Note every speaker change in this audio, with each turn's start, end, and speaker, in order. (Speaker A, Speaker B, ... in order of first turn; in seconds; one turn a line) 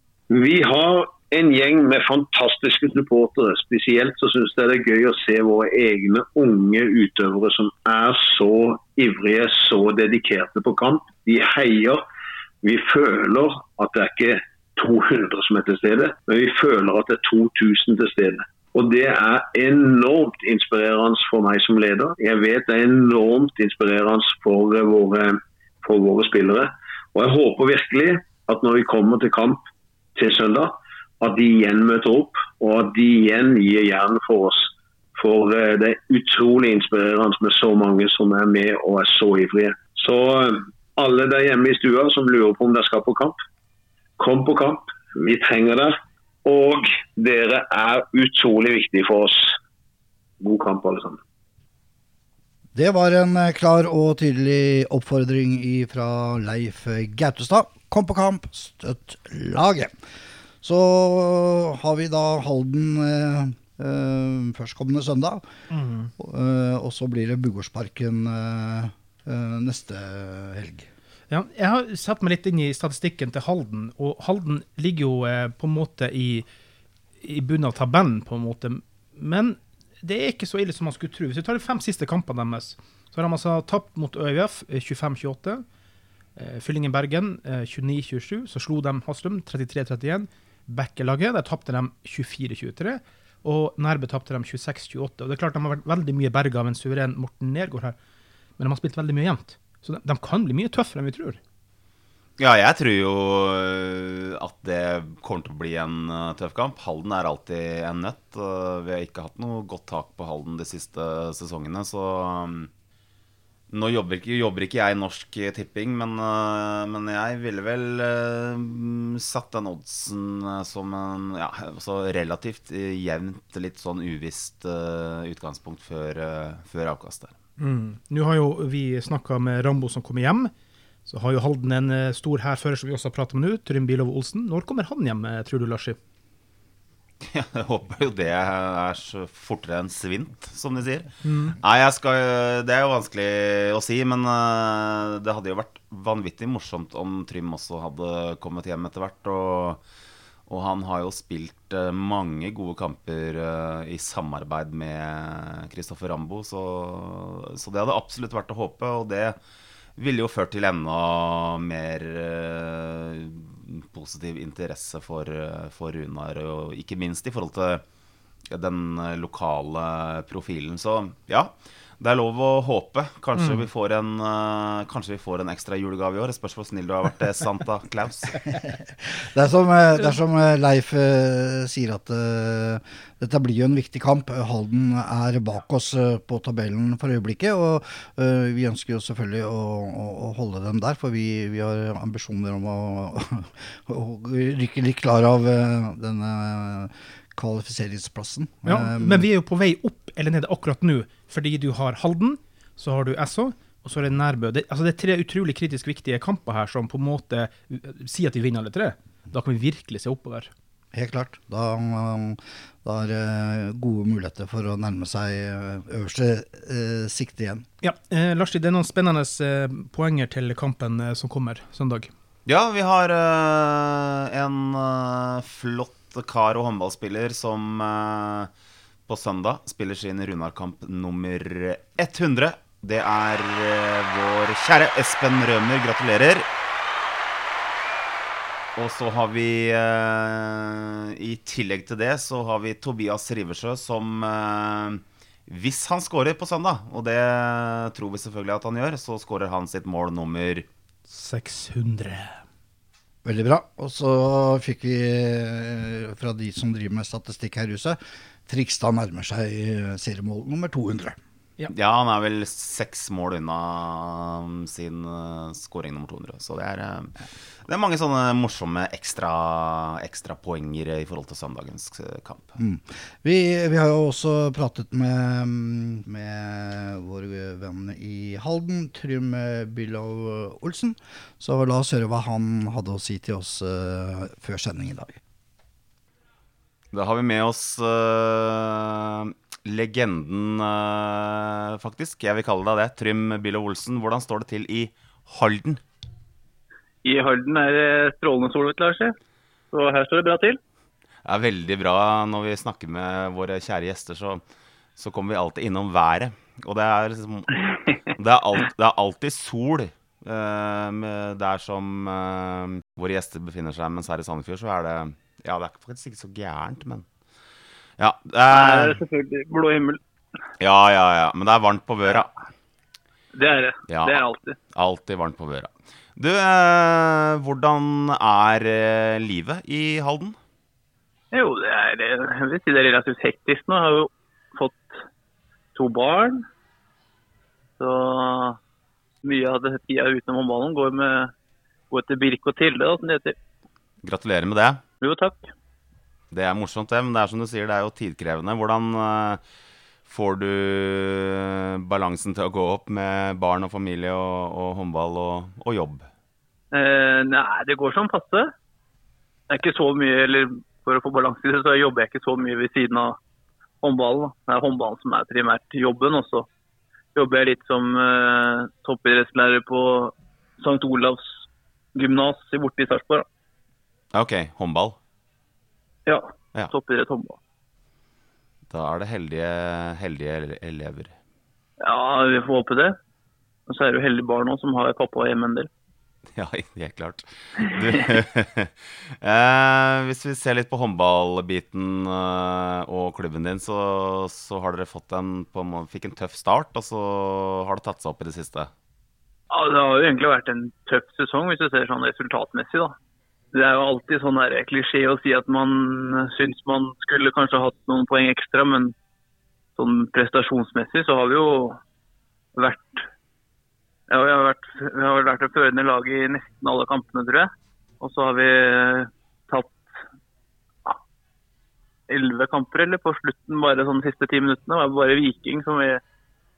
Speaker A: 0.3-12.0
Speaker A: 12.6-43.4
Speaker A: 44.2-49.5
Speaker A: 50.4-51.2
Speaker B: 52.7-59.9
Speaker B: 60.6-65.4
Speaker C: 65.7-66.1
Speaker B: 66.2-70.9
Speaker C: 71.3-76.5
Speaker C: 77.2-85.6
Speaker C: 86.3-98.0
Speaker C: 98.6-101.4
Speaker D: 102.4-112.7
Speaker D: 113.7-127.3
Speaker C: 127.6-130.5
Speaker C: 131.1-136.0
Speaker D: 137.2-149.8
Speaker C: 141.2-141.6
Speaker D: 150.5-159.4
Speaker D: 160.0-167.8
Speaker D: 168.5-178.3
Speaker B: 179.0-199.3
Speaker C: 198.6-210.5
Speaker B: 210.9-217.6
Speaker C: 217.8-222.1
Speaker D: 222.4-228.5
Speaker D: 229.1-236.5
Speaker D: 238.8-250.7
Speaker C: 251.1-252.4
Speaker B: 253.2-261.2
Speaker D: 261.7-267.1
Speaker D: 267.7-272.6
Speaker B: 272.6-285.2
Speaker D: 286.9-295.8
Speaker E: 297.0-299.1
Speaker E: 299.7-300.6
Speaker D: 301.2-304.4
Speaker D: 305.0-317.0
Speaker D: 318.0-319.0
Speaker E: 318.5-320.0
Speaker D: 320.6-322.3
Speaker E: 323.3-324.6
Speaker D: 323.9-324.2
Speaker D: 324.7-330.4
Speaker E: 331.3-335.0
Speaker E: 335.7-336.4
Speaker E: 337.8-338.6
Speaker E: 339.2-341.3
Speaker E: 341.9-343.4
Speaker D: 344.0-344.8
Speaker E: 345.0-345.5
Speaker D: 346.3-349.4
Speaker D: 350.1-356.1
Speaker E: 356.7-358.5
Speaker E: 359.5-363.2
Speaker E: 363.8-366.5
Speaker E: 367.1-371.4
Speaker E: 371.9-373.2
Speaker D: 374.1-374.9
Speaker E: 376.1-377.4
Speaker D: 378.7-381.1
Speaker E: 381.8-383.0
Speaker E: 383.7-385.7
Speaker D: 386.3-398.7
Speaker E: 399.5-402.9
Speaker E: 403.5-408.9
Speaker E: 409.8-411.8
Speaker E: 412.6-413.1
Speaker E: 414.1-419.9
Speaker E: 422.1-426.0